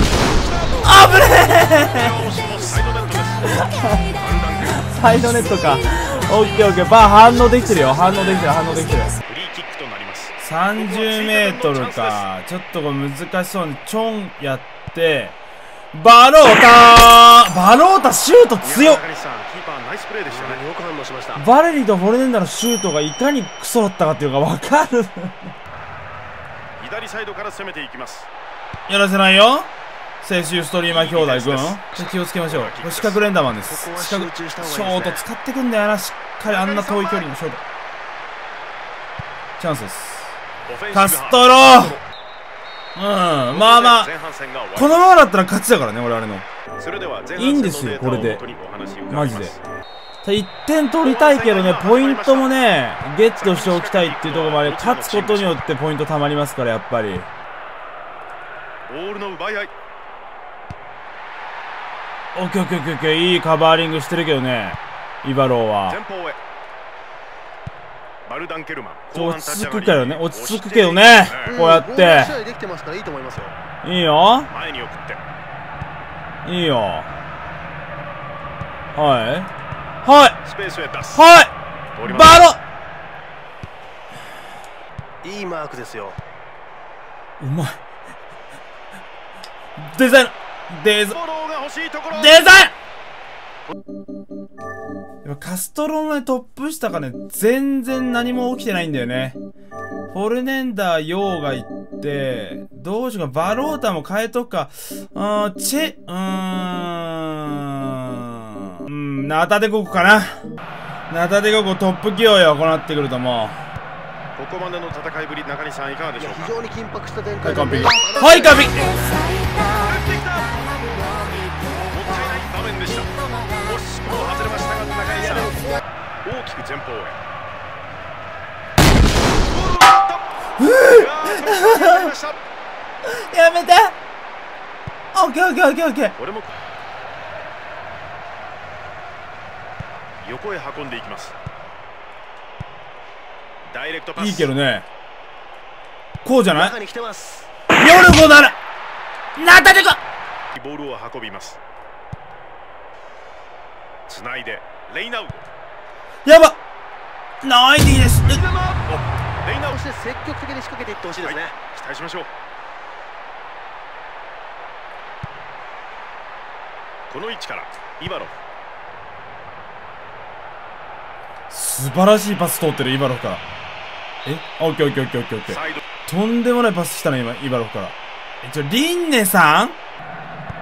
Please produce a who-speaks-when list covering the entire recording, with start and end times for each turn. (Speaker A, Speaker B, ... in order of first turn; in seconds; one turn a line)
Speaker A: 0.3-4.8
Speaker B: 0.8-2.1
Speaker B: 3.5-4.0
Speaker B: 4.6-9.2
Speaker A: 9.2-12.2
Speaker B: 10.4-15.4
Speaker B: 15.9-19.0
Speaker A: 18.6-20.6
Speaker C: 20.3-21.4
Speaker B: 21.3-25.5
Speaker A: 26.8-28.3
Speaker B: 28.9-29.7
Speaker B: 30.2-37.6
Speaker A: 30.9-33.3
Speaker C: 33.6-35.3
Speaker A: 36.4-37.3
Speaker B: 39.6-40.4
Speaker A: 40.6-42.0
Speaker B: 40.9-42.0
Speaker B: 42.9-44.1
Speaker A: 43.5-45.0
Speaker B: 44.7-46.5
Speaker A: 46.8-49.6
Speaker B: 47.4-48.4
Speaker B: 49.1-49.5
Speaker B: 50.2-57.3
Speaker A: 51.0-52.5
Speaker A: 53.4-55.8
Speaker A: 58.9-59.7
Speaker B: 62.3-66.0
Speaker A: 65.9-66.4
Speaker A: 68.2-71.6
Speaker B: 69.1-72.3
Speaker C: 71.4-73.5
Speaker B: 73.8-74.5
Speaker A: 74.5-75.2
Speaker B: 76.4-77.1
Speaker B: 78.9-79.5
Speaker B: 80.0-80.4
Speaker A: 80.4-81.2
Speaker B: 81.1-82.6
Speaker A: 81.9-82.4
Speaker C: 85.2-86.2
Speaker B: 87.4-87.8
Speaker B: 89.8-91.2
Speaker A: 91.1-92.5
Speaker B: 92.1-92.7
Speaker B: 95.2-99.3
Speaker B: 100.1-110.4
Speaker B: 111.1-113.6
Speaker A: 114.3-116.5
Speaker C: 116.2-119.5
Speaker B: 117.4-119.0
Speaker A: 119.7-120.6
Speaker A: 121.9-125.6
Speaker A: 126.2-127.2
Speaker A: 129.4-130.3
Speaker B: 130.6-132.1
Speaker A: 130.9-132.4
Speaker B: 133.0-133.9
Speaker B: 135.1-136.1
Speaker A: 136.2-136.6
Speaker A: 140.2-141.3
Speaker A: 143.7-144.5
Speaker B: 144.2-144.8
Speaker B: 146.2-146.7
Speaker C: 146.5-147.5
Speaker B: 147.8-148.6
Speaker B: 149.3-150.0
Speaker A: 150.5-151.6
Speaker A: 154.1-155.4
Speaker B: 156.2-156.6
Speaker B: 157.4-158.4
Speaker A: 158.2-159.7
Speaker C: 159.7-161.6
Speaker A: 161.2-162.3
Speaker A: 167.1-168.3
Speaker B: 171.5-173.4
Speaker B: 174.2-179.8
Speaker A: 175.5-175.8